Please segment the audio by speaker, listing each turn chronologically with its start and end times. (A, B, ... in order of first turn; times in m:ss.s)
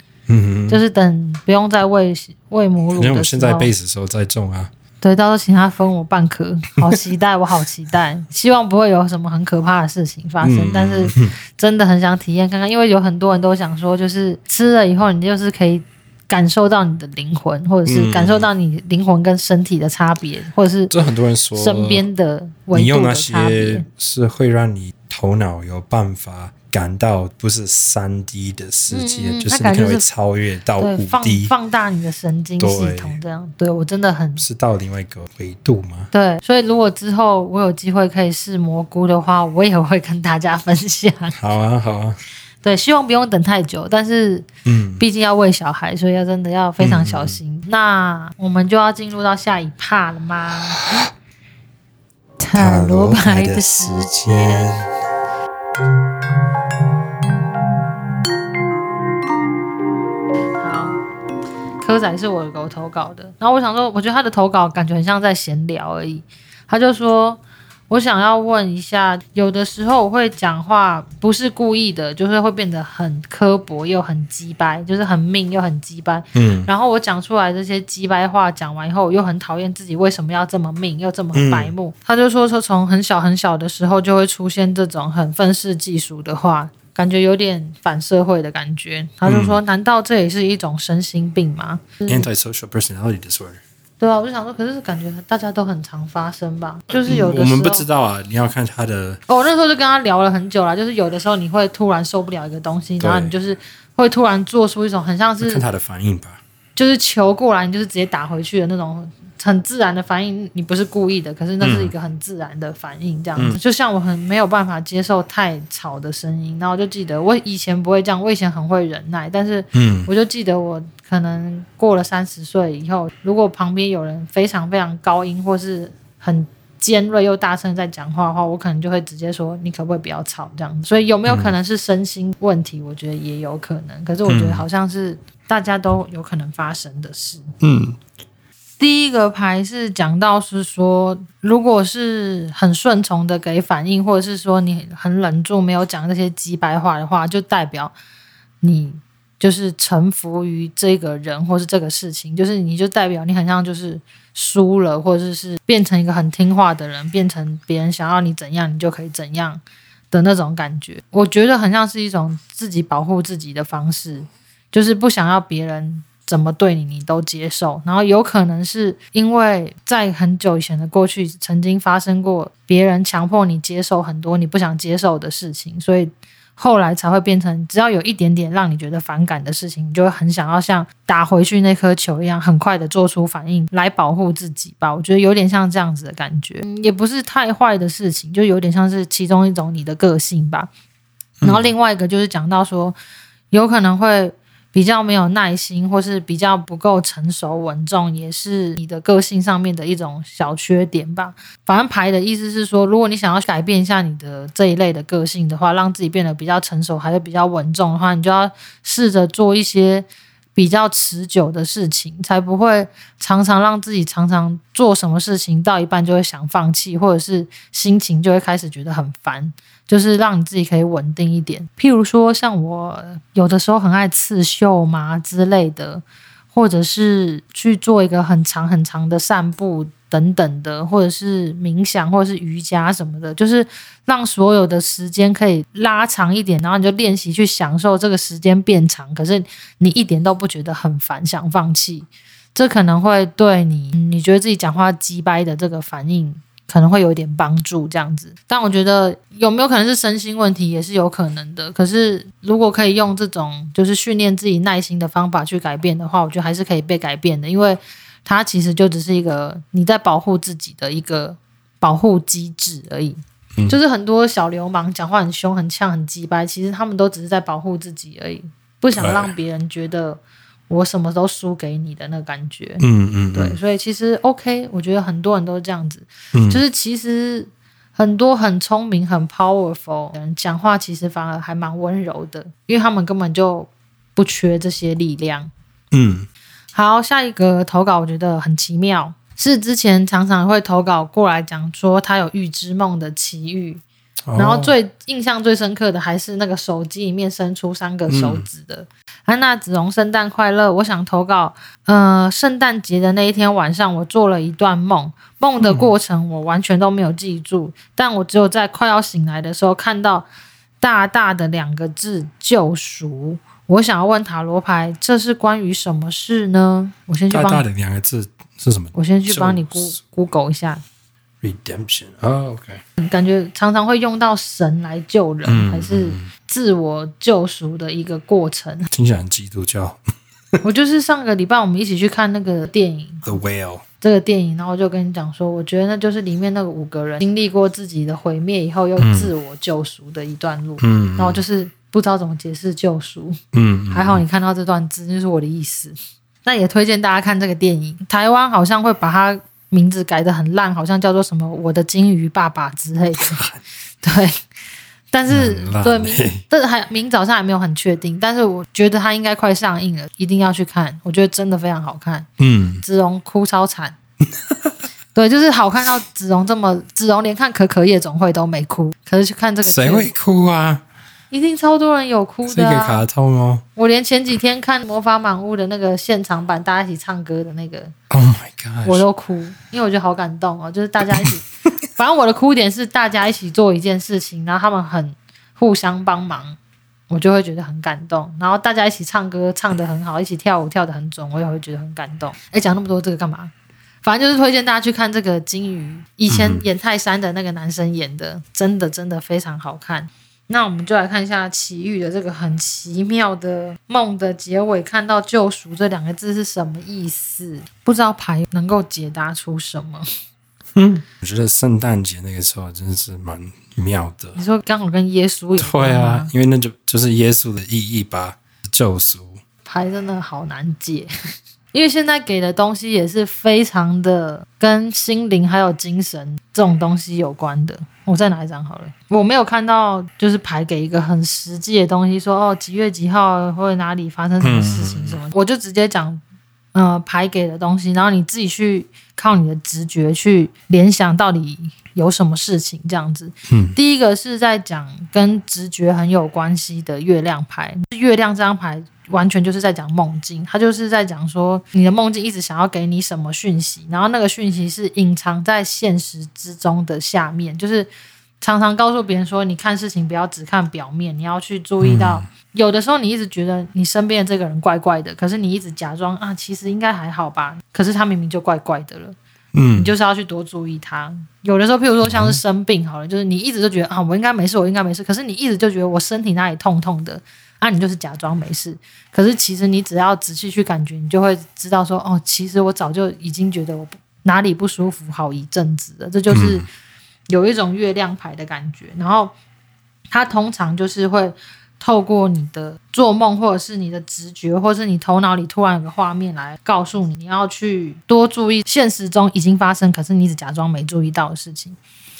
0:00.3-0:00.8 A
0:00.7-0:03.7 B
0:02.9-0:04.7 A
0:05.0-0:20.9 B
0:10.4-0:11.3 A
0:17.8-0:18.5 A
0:20.9-0:22.1 A
0:21.5-0:23.8 B
0:22.7-0:31.5 A
0:28.9-0:30.0 B
0:30.8-0:34.4 B
0:32.6-0:33.2 A
0:34.4-0:36.1 A
0:36.1-0:41.4 B
0:41.3-0:42.2 A
0:42.6-0:44.5 B
0:44.6-0:45.0 A
0:45.0-0:50.8 B
0:46.8-0:47.4 A
0:50.8-0:51.0 A
0:52.4-0:54.6 B
0:52.5-0:54.9 A
1:00.6-1:01.0 B
1:01.8-1:32.3 B
1:16.3-1:16.7 A
1:21.3-1:21.7 A
1:29.2-1:29.6 A
1:32.1-1:33.6 A
1:34.0-1:37.8 B
1:36.9-1:39.2 A
1:39.3-1:45.6 B
1:43.0-1:43.3 A
1:45.4-1:46.4 A
1:46.8-2:17.5 B
1:51.6-1:51.9 A
1:59.7-2:00.1 A
2:11.2-2:11.5 A
2:14.3-2:14.6 A
2:17.6-2:18.0 A
2:18.8-2:27.9 B
2:28.6-3:10.7 B
3:11.4-3:11.7 A
3:11.4-3:13.0 B
3:13.5-4:45.5 B
4:29.0-4:29.3 A
4:32.8-4:33.6 A
4:36.3-4:36.6 A
4:45.9-4:46.3 A
4:46.7-4:53.8 B
4:54.2-4:54.7 A
4:54.4-5:10.2 B
4:58.1-4:58.4 A
5:05.6-5:05.9 A
5:10.8-5:17.6 B
5:17.3-5:20.0 A
5:18.9-5:20.8 B
5:21.4-5:22.8 A
5:23.0-5:28.9 B
5:25.4-5:26.3 A
5:28.9-5:30.0 A
5:30.6-5:33.4 B
5:33.2-5:33.8 A
5:34.0-5:43.4 B
5:39.0-5:39.3 A
5:40.8-5:41.4 A
5:43.5-5:44.2 A
5:43.9-5:53.4 B
5:53.2-5:53.6 A
5:54.0-5:54.4 B
5:55.1-6:02.3 B
5:55.3-5:56.4 A
6:02.4-6:02.8 A
6:02.8-6:03.9 B
6:04.3-6:04.7 A
6:05.1-6:10.1 B
6:09.6-6:10.8 A
6:11.3-6:13.0 B
6:12.4-6:13.6 A
6:13.8-6:17.9 B
6:18.1-6:19.0 A
6:18.8-6:26.6 B
6:21.1-6:21.3 A
6:27.1-6:33.5 B
6:34.0-6:50.0 B
6:36.3-6:36.6 A
6:50.7-6:54.4 A
6:54.4-6:56.3 B
6:55.6-6:59.4 A
6:59.6-7:01.1 B
7:01.7-7:16.2 B
7:14.4-7:15.2 A
7:16.7-7:37.9 B
7:23.5-7:23.8 A
7:38.4-7:49.2 B
7:41.8-7:42.3 A
7:49.5-7:49.9 A
7:49.7-8:06.6 B
7:52.0-7:52.4 A
8:06.3-8:06.6 A
8:07.3-8:09.3 B
8:10.1-8:21.8 B